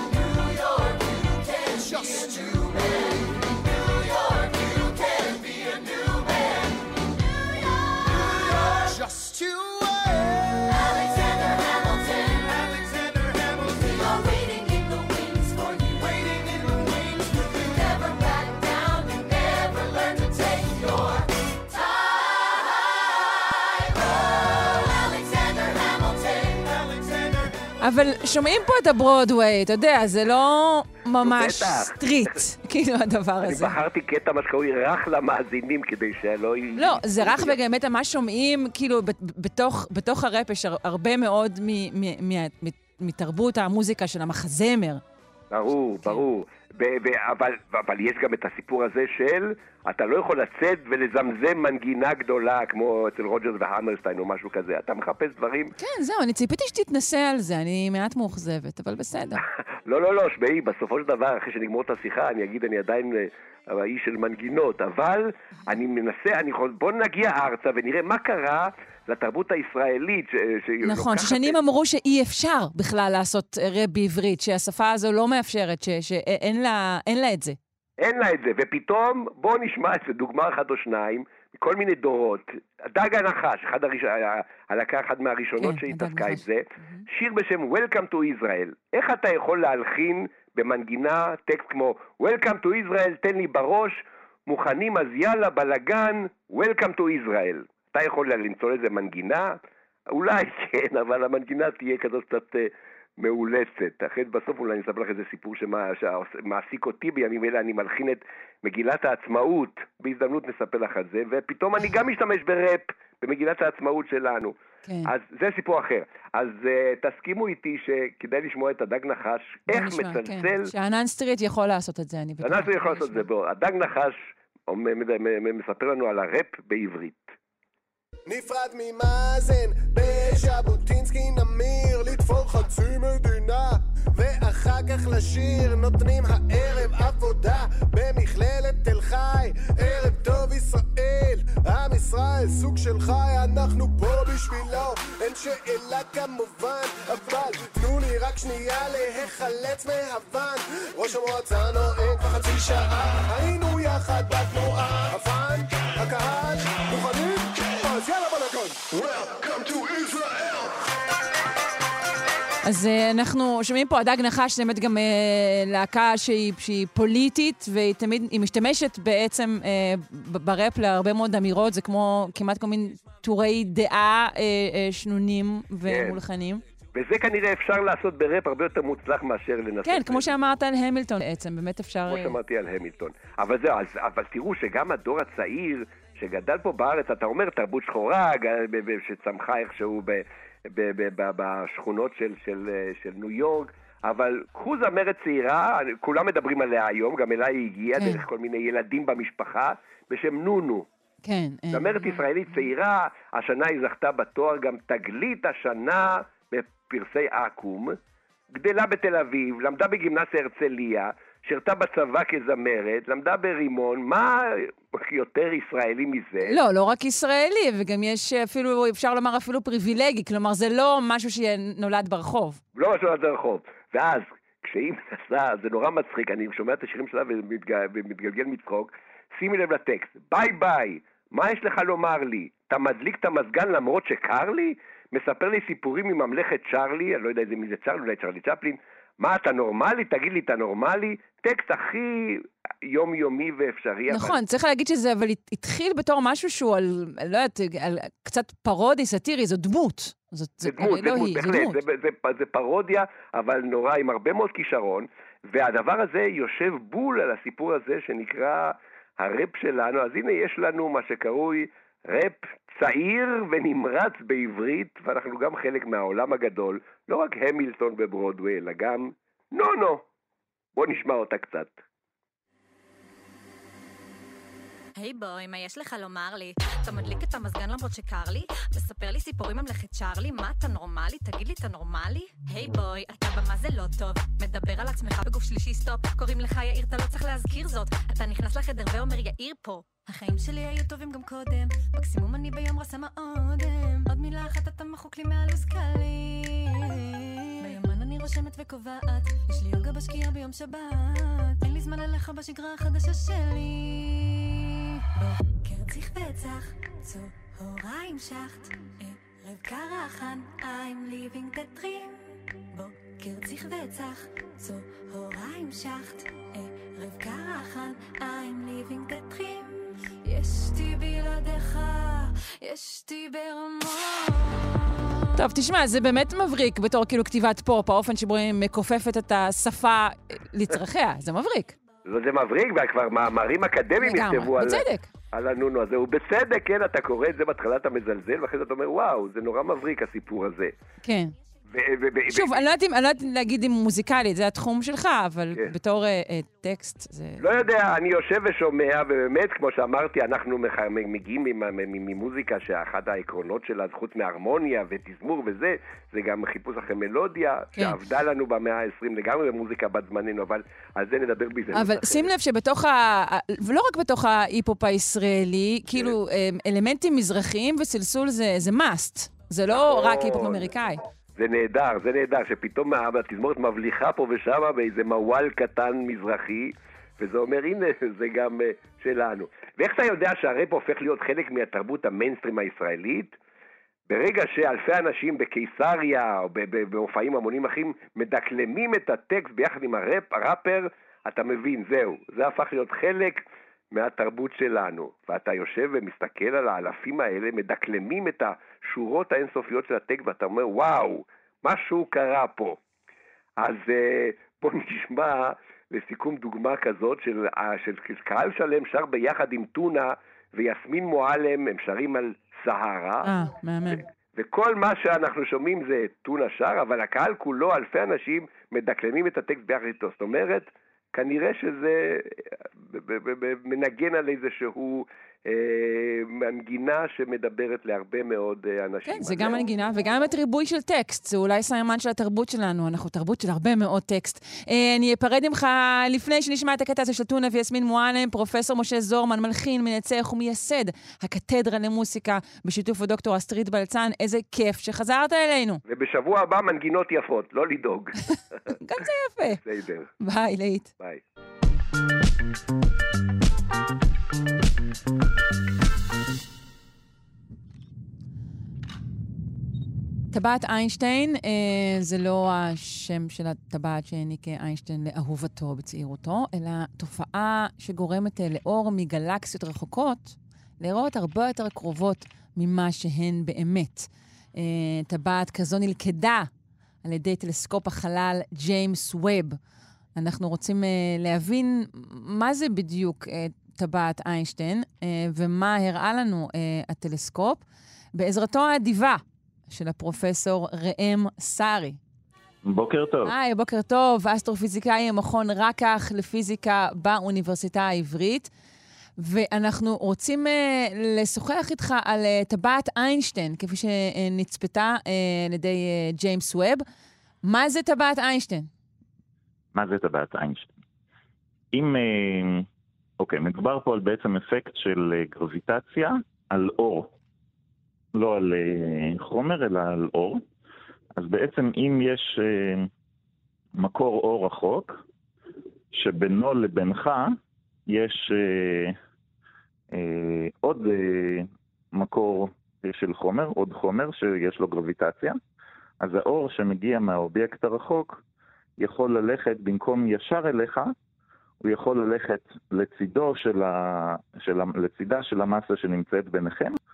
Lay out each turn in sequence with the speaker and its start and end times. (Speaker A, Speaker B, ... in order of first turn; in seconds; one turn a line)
Speaker A: 14.3-15.8
Speaker A: 18.0-18.6
Speaker B: 27.8-33.8
Speaker C: 31.2-32.4
Speaker C: 33.4-37.6
Speaker B: 36.8-45.0
Speaker C: 45.5-55.7
Speaker B: 55.8-59.4
Speaker C: 59.8-71.6
Speaker B: 70.8-77.6
Speaker C: 78.0-99.6
Speaker B: 85.6-87.0
Speaker C: 100.1-120.7
Speaker B: 114.8-115.1
Speaker B: 119.7-123.2
Speaker C: 122.4-127.3
Speaker D: 128.3-160.6
Speaker B: 162.6-176.6
Speaker C: 175.8-176.2
Speaker C: 176.9-180.4
Speaker B: 179.8-182.4
Speaker C: 182.1-200.9
Speaker B: 198.0-198.2
Speaker B: 201.2-202.3
Speaker C: 201.7-208.0
Speaker C: 208.5-216.6
Speaker B: 216.4-222.6
Speaker C: 222.8-244.4
Speaker B: 244.1-251.8
Speaker C: 250.6-270.0
Speaker C: 270.8-271.7
Speaker A: 275.0-324.7
Speaker B: 325.4-331.7
Speaker C: 332.1-340.7
Speaker B: 334.0-335.1
Speaker B: 341.0-341.3
Speaker C: 341.7-342.7
Speaker B: 342.3-347.5
Speaker C: 347.4-362.3
Speaker B: 361.7-371.0
Speaker C: 369.7-370.7
Speaker C: 371.4-383.3
Speaker C: 384.1-402.8
Speaker C: 403.6-413.4
Speaker B: 413.2-414.0
Speaker C: 413.9-429.7
Speaker B: 429.1-445.8
Speaker C: 445.9-448.6
Speaker B: 448.7-449.6
Speaker C: 449.5-450.1
Speaker B: 450.2-450.9
Speaker B: 460.3-476.5
Speaker B: 477.0-479.6
Speaker B: 480.2-487.6
Speaker B: 488.1-492.0
Speaker E: 492.6-493.4
Speaker B: 493.3-498.5
Speaker B: 499.2-506.8
Speaker B: 507.4-508.7
Speaker E: 509.8-510.7
Speaker E: 511.7-512.7
Speaker E: 513.2-517.1
Speaker E: 518.1-520.4
Speaker E: 521.2-522.9
Speaker E: 523.8-525.0
Speaker E: 525.9-529.0
Speaker E: 529.9-535.4
Speaker E: 536.0-538.2
Speaker E: 538.8-540.9
Speaker E: 541.6-546.8